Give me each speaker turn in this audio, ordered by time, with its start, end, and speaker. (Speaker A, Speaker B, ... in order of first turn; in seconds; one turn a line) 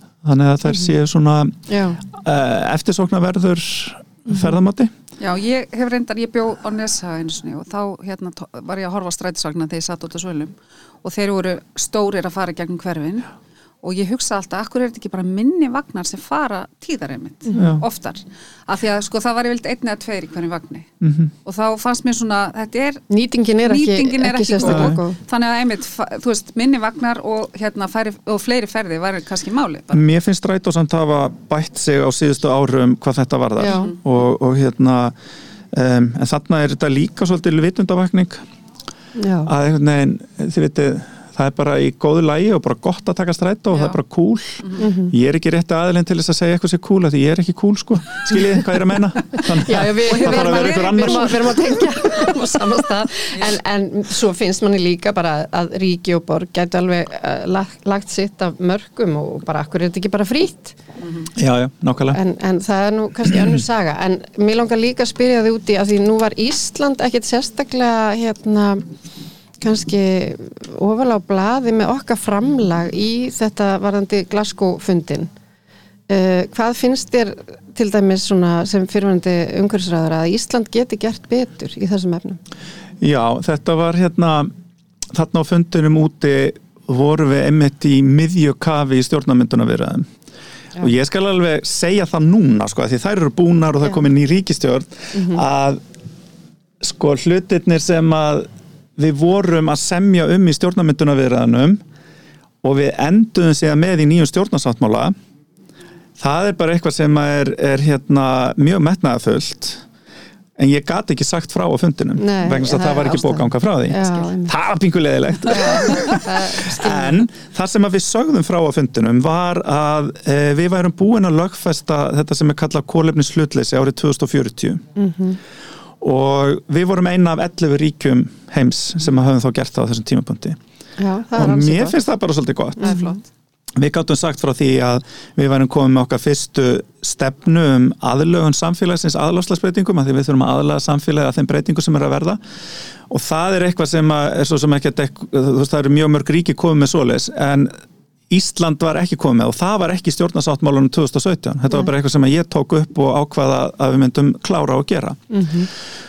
Speaker A: 0.2-4.9
Speaker B: 1.7-2.0
Speaker B: 4.3-4.6
Speaker C: 5.2-13.3
Speaker C: 13.8-20.9
Speaker B: 17.5-17.7
Speaker A: 17.6-17.8
Speaker A: 21.0-21.3
Speaker C: 21.4-23.1
Speaker B: 23.1-25.2
Speaker C: 23.6-30.0
Speaker A: 24.6-25.0
Speaker A: 29.9-35.1
Speaker B: 33.6-33.9
Speaker C: 33.6-34.0
Speaker A: 35.7-38.4
Speaker B: 39.2-39.5
Speaker A: 39.5-51.6
Speaker C: 43.7-44.0
Speaker C: 44.6-44.9
Speaker B: 44.8-45.1
Speaker B: 49.6-60.8
Speaker C: 50.0-52.4
Speaker C: 61.0-61.3
Speaker A: 61.4-62.2
Speaker B: 62.1-68.9
Speaker B: 69.6-75.3
Speaker B: 76.1-82.4
Speaker A: 83.0-84.5
Speaker A: 85.1-90.1
Speaker A: 90.8-95.8
Speaker B: 95.1-95.4
Speaker A: 96.8-101.8
Speaker A: 102.6-105.2
Speaker A: 106.2-109.8
Speaker A: 110.6-124.8
Speaker B: 112.2-114.5
Speaker C: 115.6-116.0
Speaker B: 115.6-117.3
Speaker B: 125.0-125.4
Speaker A: 126.0-130.6
Speaker B: 131.0-132.0
Speaker A: 131.3-133.0
Speaker B: 132.8-133.2
Speaker A: 133.8-142.4
Speaker A: 143.1-147.7
Speaker A: 148.3-155.3
Speaker B: 155.3-155.7